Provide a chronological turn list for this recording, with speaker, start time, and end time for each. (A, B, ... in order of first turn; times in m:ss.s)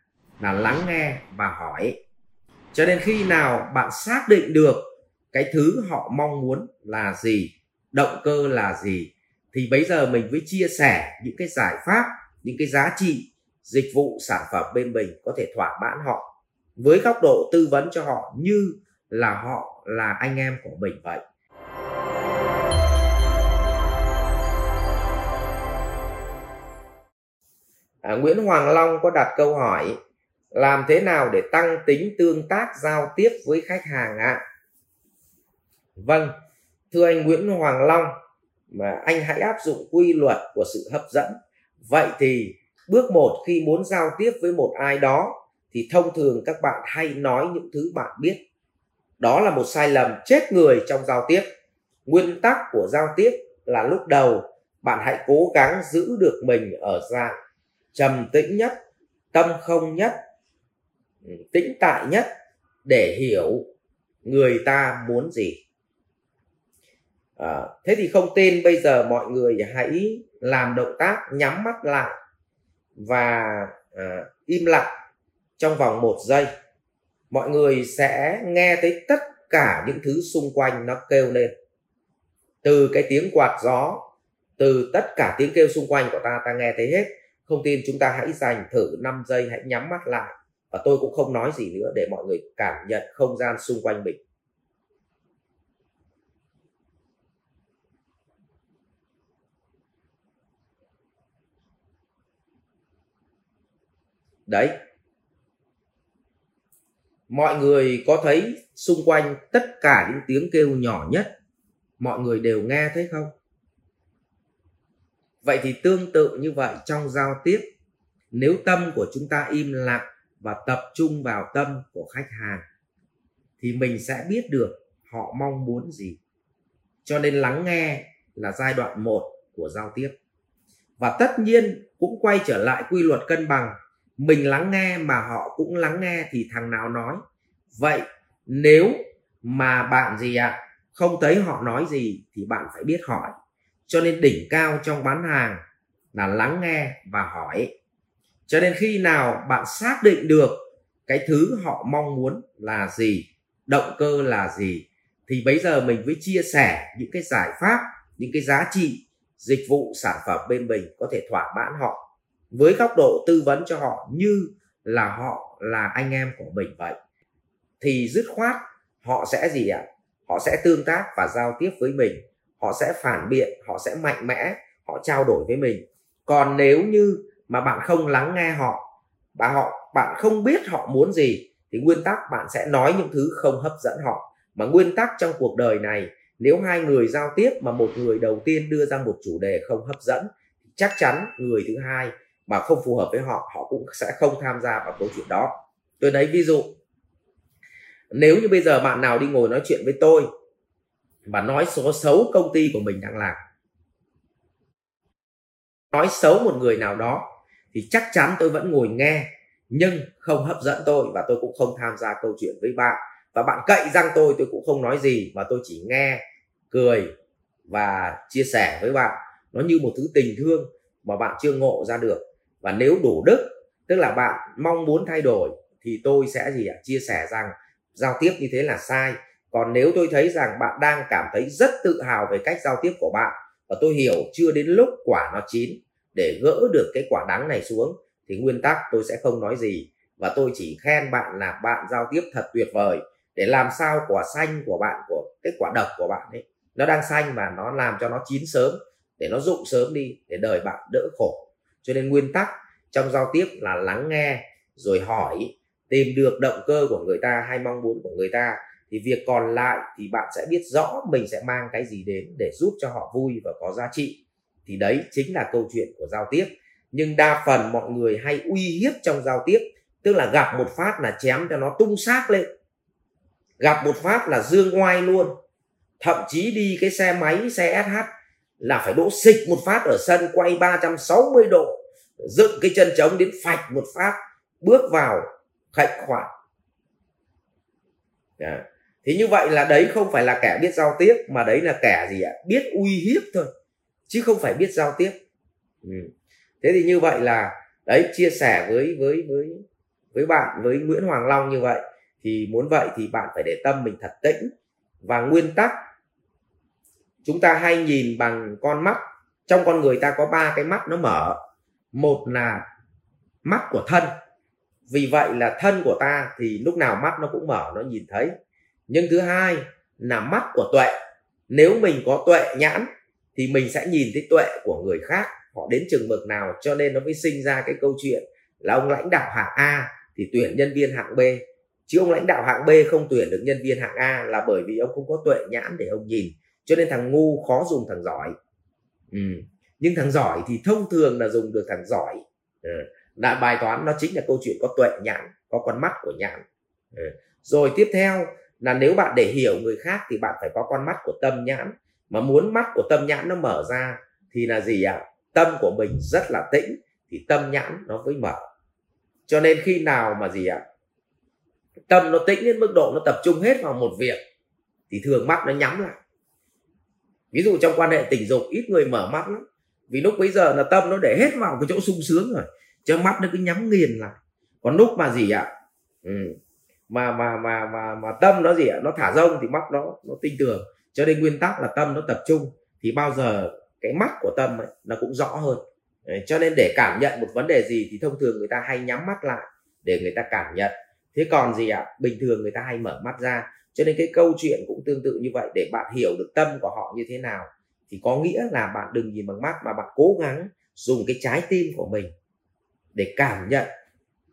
0:00.4-0:02.0 A
0:02.7-0:16.3 A
0:16.8-0:21.2 A
0:28.0-0:30.0 A
0:30.5-0:34.4 A
0:36.0-0:36.3 A
0:36.9-0:38.1 A
0:38.7-0:48.4 A
0:49.2-0:51.4 A
0:52.1-0:57.4 A
0:57.9-0:58.8 A
0:59.3-1:00.2 A
1:01.3-1:02.3 A
1:02.8-1:03.7 A
1:04.2-1:05.6 A
1:07.4-1:12.1 A
1:13.0-1:14.9 A
1:15.6-1:16.5 A
1:17.3-1:21.5 A
1:22.6-1:24.0 A
1:24.6-1:34.2 A
1:44.5-1:44.7 A
1:47.3-1:51.3 A
1:52.0-1:53.3 A
1:55.4-1:57.6 A
1:58.3-2:02.6 A
2:03.6-2:06.2 A
2:07.0-2:10.1 A
2:11.0-2:17.2 A
2:17.7-2:23.3 A
2:23.9-2:25.6 A
2:26.1-2:27.7 A
2:28.5-2:47.0 A
2:47.8-2:58.8 A
2:59.4-3:16.7 A
3:18.1-3:20.3 A
3:21.3-3:23.4 A
3:25.9-3:37.1 A
3:37.7-4:32.5 A
4:33.6-4:35.3 A
4:36.0-4:38.1 A
4:38.6-4:46.3 A
4:48.4-4:53.5 A
4:54.1-4:55.2 A
4:55.8-4:59.6 A
5:00.1-5:04.5 A
5:05.0-5:05.8 A
5:07.2-5:11.4 A
5:11.9-5:12.6 A
5:13.4-5:14.1 A
5:14.9-5:18.3 A
5:18.9-5:20.9 A
5:21.5-5:38.3 A
5:39.1-5:58.4 A
5:59.3-6:00.6 A
6:01.9-6:04.2 A
6:04.9-6:06.0 A
6:07.3-6:15.5 A
6:16.0-6:16.4 A
6:16.9-6:42.1 A
6:43.0-6:43.7 A